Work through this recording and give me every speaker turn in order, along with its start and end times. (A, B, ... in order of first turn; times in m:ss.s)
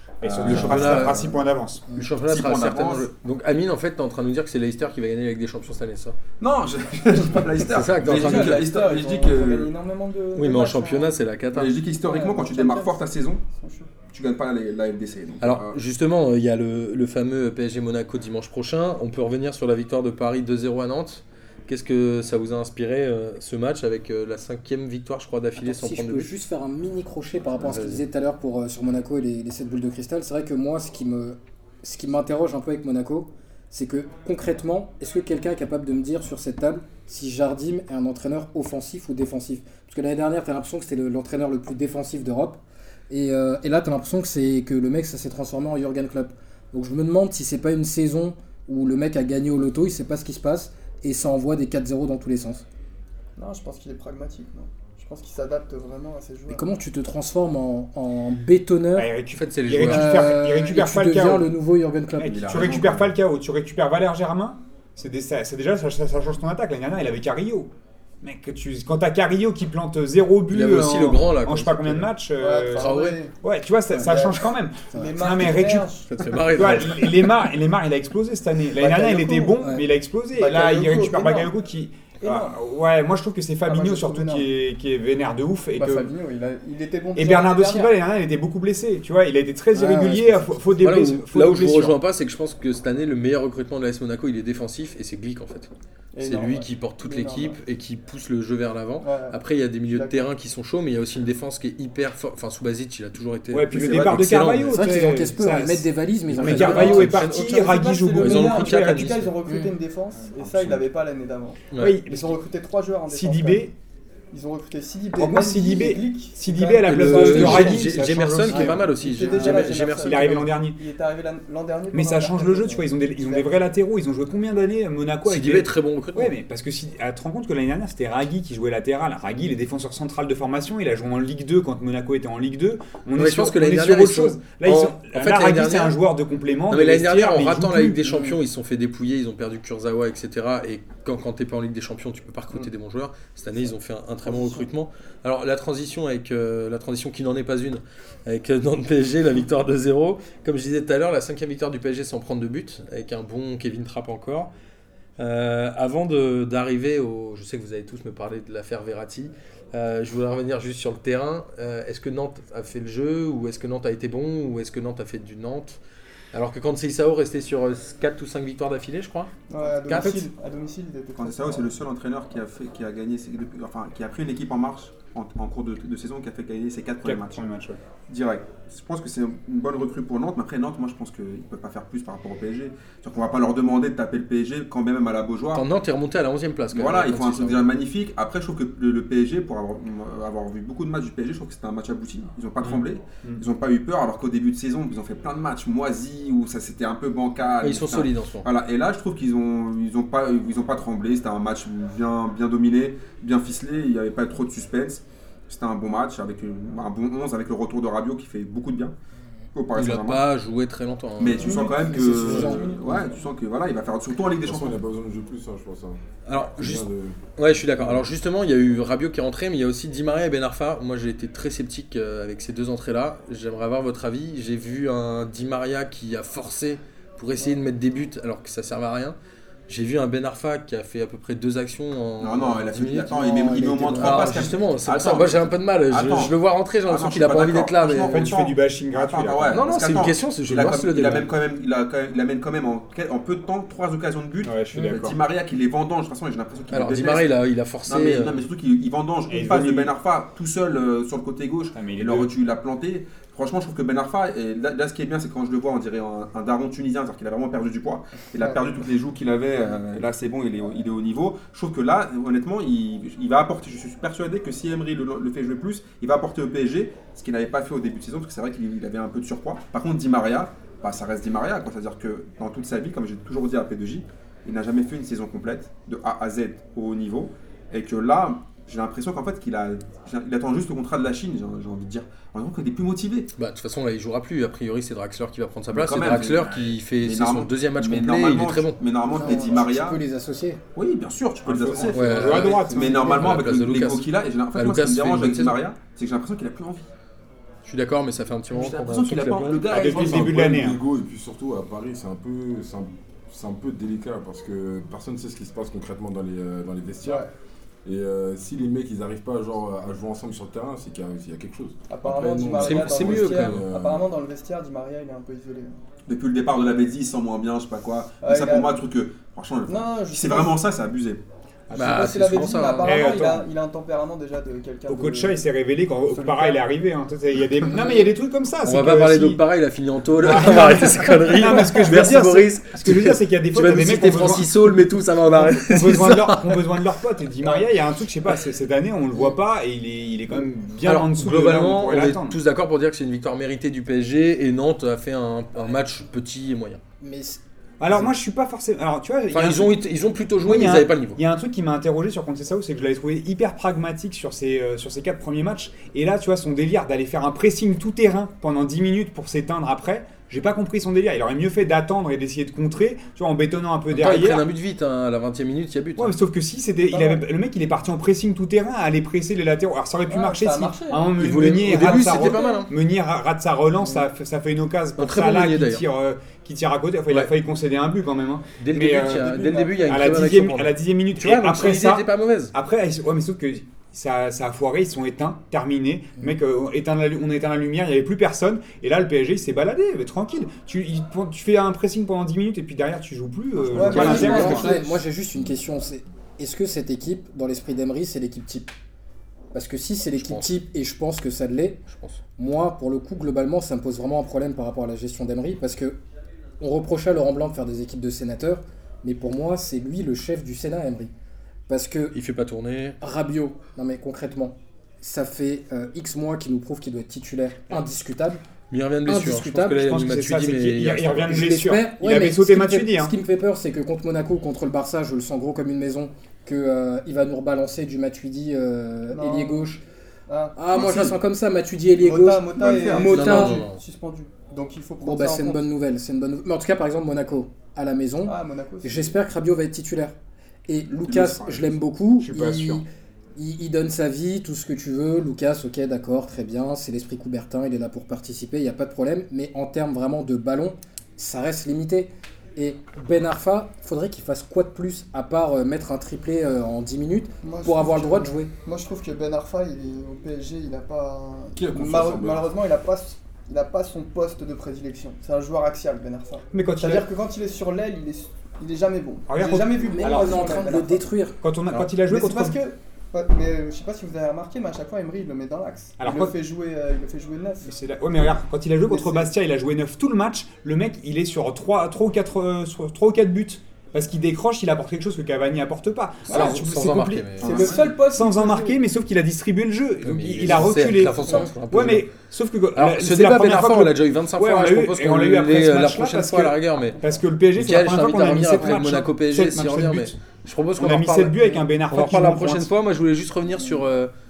0:00.2-0:01.4 A
0:00.2-0:01.8 B
0:00.4-0:01.3 C
0:01.9-0:06.2 C
0:02.2-0:03.1 A
0:06.4-0:09.7 A
0:07.7-0:08.7 C
0:08.0-0:11.2 D
0:10.4-0:11.7 C
0:11.5-0:13.4 A
0:12.0-0:14.0 D
0:14.1-0:15.8 A
0:15.4-0:26.4 C
0:25.6-0:52.6 E
0:27.6-0:28.0 C
0:53.4-0:56.6 D
0:56.5-0:59.1 E
0:59.0-1:01.5 B
0:59.3-1:00.3 C
0:59.8-1:02.7 E
1:02.2-1:07.7 B
1:02.2-1:03.1 A
1:08.2-1:15.9 B
1:10.5-1:12.1 C
1:12.4-1:13.4 D
1:12.8-1:13.2 C
1:14.0-1:16.1 D
1:16.1-1:17.2 C
1:16.5-1:26.1 B
1:18.8-1:19.7 D
1:20.4-1:21.5 D
1:22.2-1:22.6 D
1:23.6-1:24.5 D
1:25.8-1:27.9 D
1:27.2-1:32.0 B
1:29.9-1:30.4 D
1:30.8-1:35.7 C
1:36.1-1:37.6 D
1:36.2-1:44.8 C
1:39.0-1:39.4 D
1:39.9-1:40.3 D
1:43.5-1:49.3 B
1:43.7-1:44.4 A
1:44.6-1:47.1 E
1:46.3-1:49.3 C
1:46.7-1:53.7 D
1:49.5-1:49.7 E
1:50.2-1:50.8 B
1:51.7-1:52.0 C
1:51.8-1:52.3 B
1:53.1-1:53.7 B
1:54.3-1:57.9 D
1:55.2-2:00.8 B
1:56.9-2:00.4 C
1:57.2-1:57.7 E
1:58.5-2:03.6 D
1:58.5-1:58.8 E
2:01.9-2:18.1 B
2:05.3-2:06.4 C
2:13.1-2:16.0 C
2:16.7-2:34.5 C
2:18.0-2:18.4 D
2:24.2-2:24.7 D
2:35.2-2:45.8 C
2:46.3-2:49.3 C
2:49.5-2:51.7 D
2:49.9-2:50.3 C
2:51.2-2:57.4 A
2:57.0-2:57.8 B
2:58.1-3:05.6 A
3:05.5-3:07.7 C
3:06.7-3:29.0 A
3:12.6-3:13.4 B
3:17.6-3:18.5 C
3:29.6-3:30.2 A
3:29.7-3:31.7 C
3:31.2-3:34.8 A
3:31.4-3:32.6 D
3:31.7-3:33.0 E
3:32.2-3:32.8 F
3:34.4-3:38.0 F
3:36.3-3:49.2 C
3:49.7-3:58.3 C
3:52.2-4:07.4 A
3:53.2-3:54.5 E
3:57.9-3:59.6 B
3:59.5-4:01.3 C
4:04.4-4:05.2 B
4:06.7-4:08.4 C
4:07.9-4:43.3 A
4:09.3-4:09.9 B
4:11.8-4:12.3 B
4:43.4-4:48.8 C
4:45.7-4:50.0 A
4:49.1-4:50.6 E
4:49.2-4:49.6 D
4:50.8-4:56.9 A
4:51.4-4:53.4 B
4:51.9-4:55.6 C
4:57.6-5:00.0 C
4:58.5-5:00.6 A
4:59.7-5:00.8 B
4:59.9-5:07.2 F
5:07.0-5:07.3 D
5:07.8-5:14.1 F
5:11.9-5:15.8 D
5:12.5-5:13.6 C
5:16.1-5:21.2 A
5:18.2-5:18.8 D
5:19.7-5:20.6 D
5:21.7-5:22.0 B
5:21.7-5:23.0 C
5:21.8-5:25.4 D
5:22.8-5:23.5 B
5:24.9-5:29.4 B
5:26.1-5:26.6 D
5:28.6-5:36.6 C
5:30.2-5:34.8 B
5:35.3-5:42.4 B
5:40.8-5:46.8 C
5:47.0-5:48.1 E
5:47.8-5:49.8 B
5:49.3-5:51.2 C
5:50.5-6:04.5 B
6:03.9-6:06.2 C
6:06.0-6:34.7 B
6:06.9-6:07.2 D
6:10.1-6:12.7 D
6:11.2-6:12.7 C
6:15.0-6:15.8 C
6:18.6-6:22.5 C
6:19.0-6:20.0 D
6:33.7-6:35.0 D
6:33.7-6:38.7 E
6:33.9-6:34.4 C
6:39.5-6:41.8 E
6:40.1-6:40.6 C
6:41.9-6:42.2 C
6:42.4-6:46.0 E
6:46.6-6:51.1 E
6:51.7-6:52.1 E
6:52.1-6:53.0 C
6:53.0-6:58.4 E
6:58.7-7:01.5 C
6:59.1-7:00.0 E
6:59.8-7:03.1 B
7:01.3-7:09.8 E
7:09.1-7:09.7 D
7:10.3-7:10.8 D
7:10.6-7:13.6 E
7:10.8-7:11.1 A
7:12.0-7:15.6 D
7:12.6-7:13.1 A
7:13.0-7:13.8 C
7:15.0-7:20.1 E
7:18.2-7:19.1 D
7:20.7-7:38.5 E
7:21.1-7:21.7 A
7:22.2-7:22.8 B
7:37.4-7:51.1 D
7:41.6-7:42.5 F
7:46.5-7:47.1 B
7:49.3-7:50.7 B
7:49.9-7:51.4 E
7:51.4-7:52.6 B
7:52.0-7:57.7 D
7:56.0-7:56.3 B
7:57.6-8:20.1 B
7:58.9-7:59.3 D
8:06.3-8:07.6 C
8:06.3-8:06.6 D
8:07.4-8:08.8 D
8:07.4-8:07.8 A
8:10.0-8:12.1 C
8:12.8-8:17.0 C
8:17.6-8:24.1 C
8:20.8-8:22.7 B